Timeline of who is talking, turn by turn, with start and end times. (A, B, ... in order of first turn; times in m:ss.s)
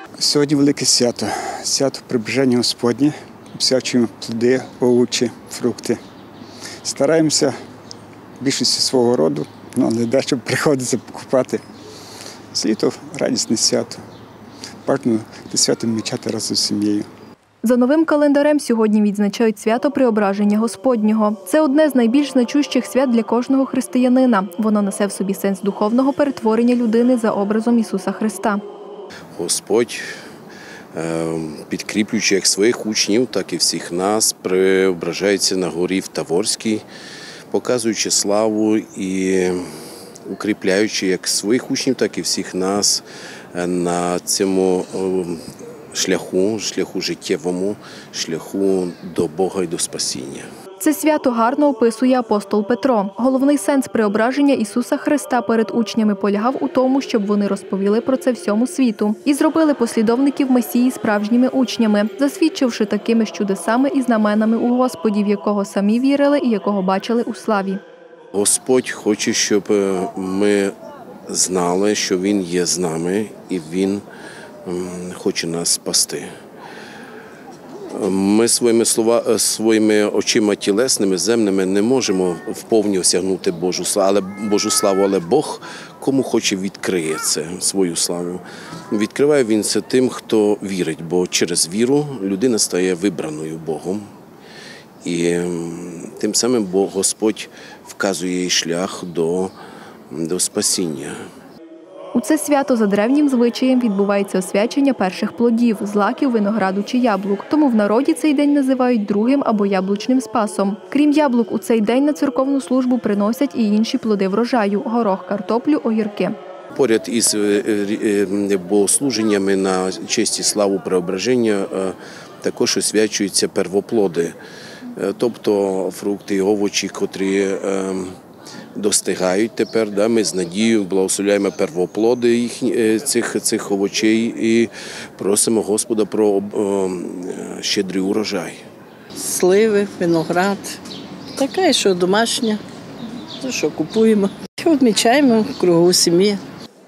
0:00.2-0:06.0 A
0:06.8-0:07.5 A
0:08.4-0:11.6 A
0:12.5-0:14.0 A
0:14.8-0:17.0 A
0:17.6-0:28.6 B
0:29.4-0:30.0 C
0:30.9-0:36.8 C
0:37.5-0:39.7 C
0:40.3-0:45.4 C
0:45.9-0:50.4 C
0:50.8-1:07.8 B
1:08.3-1:10.7 C
1:11.3-1:14.0 C
1:14.6-1:16.3 C
1:17.9-1:34.0 C
1:35.0-1:39.5 C
1:40.1-1:41.2 C
1:42.1-1:56.3 B
1:56.7-2:04.4 C
2:04.9-2:08.1 C
2:08.7-2:18.6 C
2:19.1-2:20.8 D
2:21.3-2:22.6 D
2:23.4-2:26.4 D